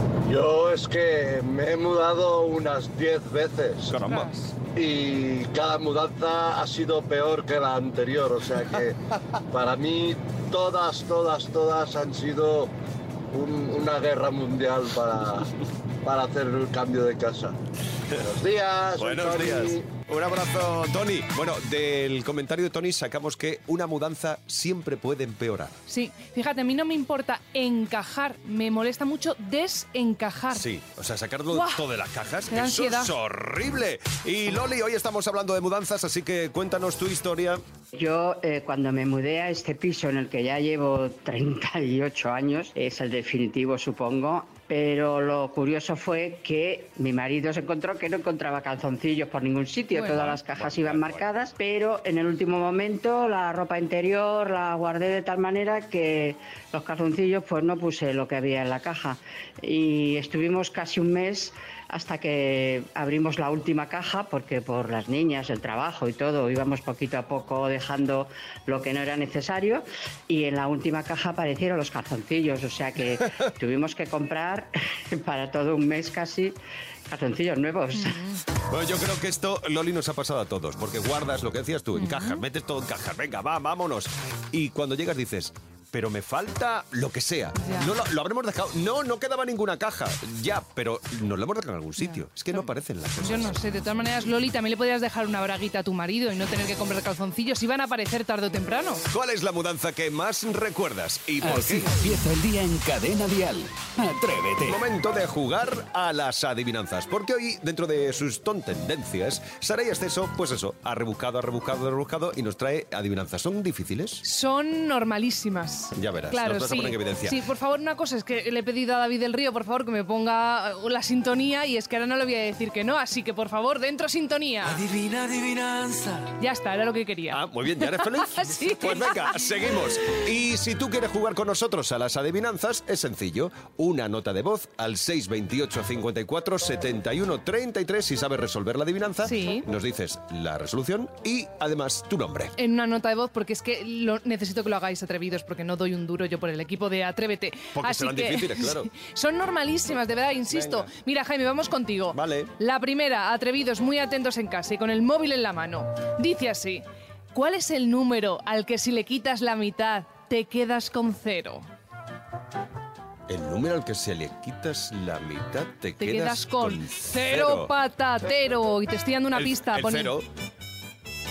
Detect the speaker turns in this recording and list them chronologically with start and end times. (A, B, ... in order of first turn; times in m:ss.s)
0:00.2-0:03.9 A
0:03.8-0:04.3 B
0:04.0-0:04.5 C
0:04.8-0:12.7 A
0:13.3-0:15.5 A
0:16.0-0:17.6 A
0:18.2-0:19.9 A
0:19.0-0:25.8 B
0:25.9-0:30.6 C
0:30.5-0:37.6 B
0:31.5-0:31.8 C
0:32.5-0:33.1 C
0:37.9-1:16.6 D
0:49.9-0:50.3 C
0:50.1-0:51.3 B
1:17.1-1:18.2 D
1:17.9-1:18.4 C
1:18.7-1:33.6 B
1:22.0-1:22.4 C
1:27.6-1:27.9 C
1:32.0-1:39.0 C
1:39.1-1:41.9 B
1:41.4-1:44.8 E
1:44.6-1:54.2 B
1:54.2-2:04.9 C
1:56.0-1:57.4 B
2:06.4-2:09.5 C
2:07.3-2:22.5 B
2:19.2-2:19.7 C
2:22.6-2:41.7 C
2:27.8-2:28.9 B
2:30.5-2:30.9 B
2:32.1-2:32.5 B
2:43.3-2:47.7 B
2:46.0-2:50.1 C
2:49.3-2:50.3 B